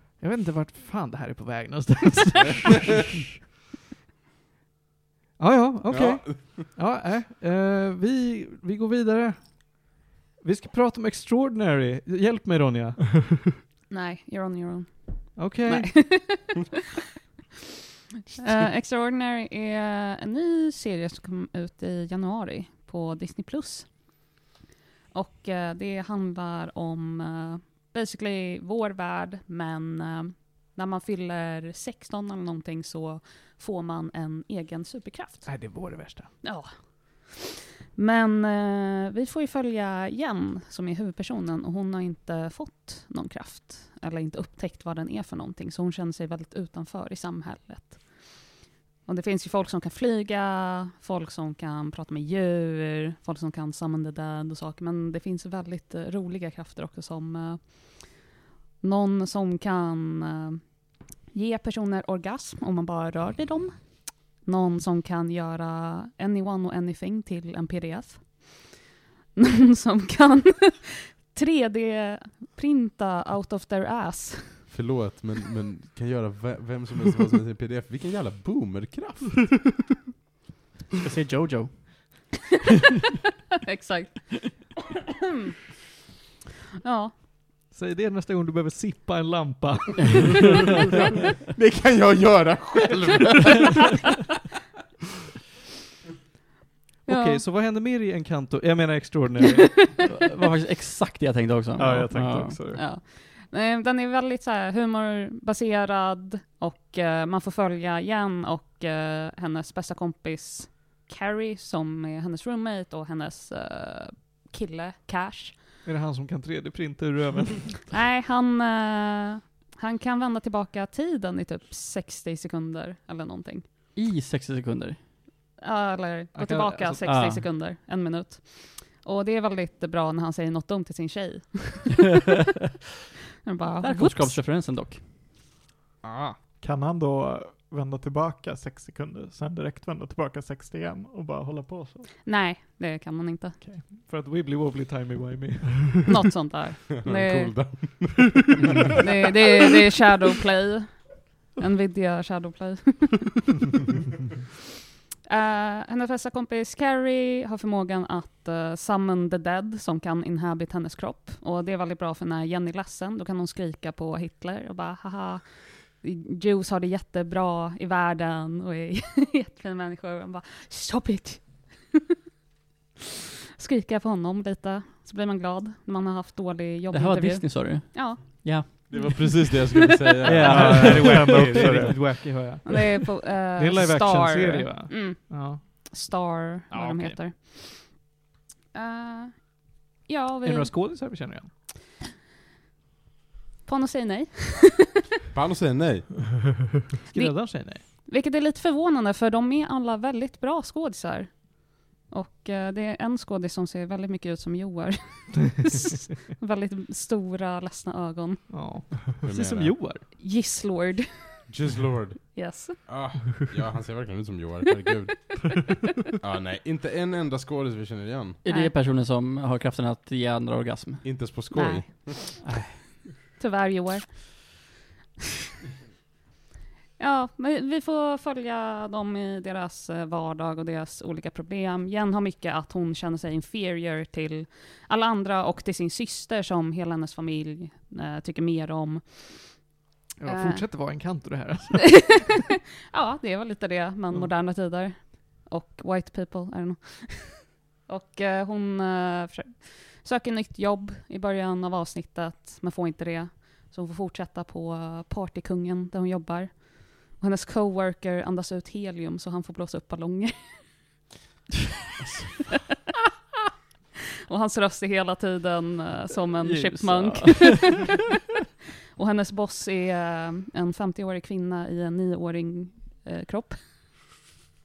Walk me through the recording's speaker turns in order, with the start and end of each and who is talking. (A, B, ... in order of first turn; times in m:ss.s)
0:00.2-0:03.0 A
0:05.4-0:13.4 A
0:05.9-0:06.6 B
0:13.9-0:16.8 C
0:15.4-0:16.3 A
0:18.4-0:24.0 C
0:25.1-0:35.7 C
0:35.4-0:36.3 A
0:36.4-0:37.4 C
0:38.0-0:48.5 C
0:49.0-0:58.2 C
0:58.8-1:08.8 C
1:09.4-1:14.7 C
1:14.7-1:19.7 B
1:21.0-1:22.3 D
1:23.6-1:24.7 C
1:26.8-1:27.1 C
1:27.7-1:30.6 A
1:30.9-1:34.0 B
1:37.1-1:37.4 C
1:37.1-1:40.0 A
1:40.1-1:42.6 D
1:41.8-1:42.8 E
1:42.7-1:55.6 C
1:55.8-1:57.9 A
1:57.9-2:03.6 C
2:04.0-2:05.1 D
2:05.6-2:12.0 C
2:06.3-2:07.1 A
2:07.0-2:07.5 D
2:13.4-2:14.4 C
2:13.8-2:15.1 D
2:16.0-2:16.4 A
2:16.6-2:22.2 E
2:22.2-2:23.6 C
2:23.6-2:23.8 E
2:23.9-2:26.0 A
2:26.1-2:27.8 C
2:26.9-2:29.0 B
2:28.9-2:33.4 C
2:35.3-2:52.0 C
2:53.6-2:58.9 C
2:56.9-2:59.5 D
2:58.9-3:01.2 B
3:00.2-3:01.7 D
3:00.2-3:07.2 A
3:00.5-3:02.1 E
3:02.6-3:08.1 C
3:08.7-3:10.7 C
3:10.4-3:11.5 A
3:13.6-3:15.0 C
3:15.3-3:16.2 B
3:17.1-3:28.7 C
3:17.1-3:17.8 A
3:28.5-3:30.1 A
3:29.3-3:30.0 B
3:30.0-3:31.5 C
3:31.5-3:38.4 B
3:32.3-3:32.8 C
3:38.4-3:41.4 D
3:38.5-3:38.8 C
3:41.0-3:42.4 B
3:41.5-3:42.3 C
3:42.4-3:43.2 D
3:43.4-3:44.6 C
3:47.0-3:59.7 C
4:00.2-4:02.3 A
4:00.2-4:00.7 C
4:02.0-4:02.3 C
4:02.9-4:21.0 C
4:24.3-4:28.0 C
4:26.4-4:28.1 D
4:29.0-4:33.8 C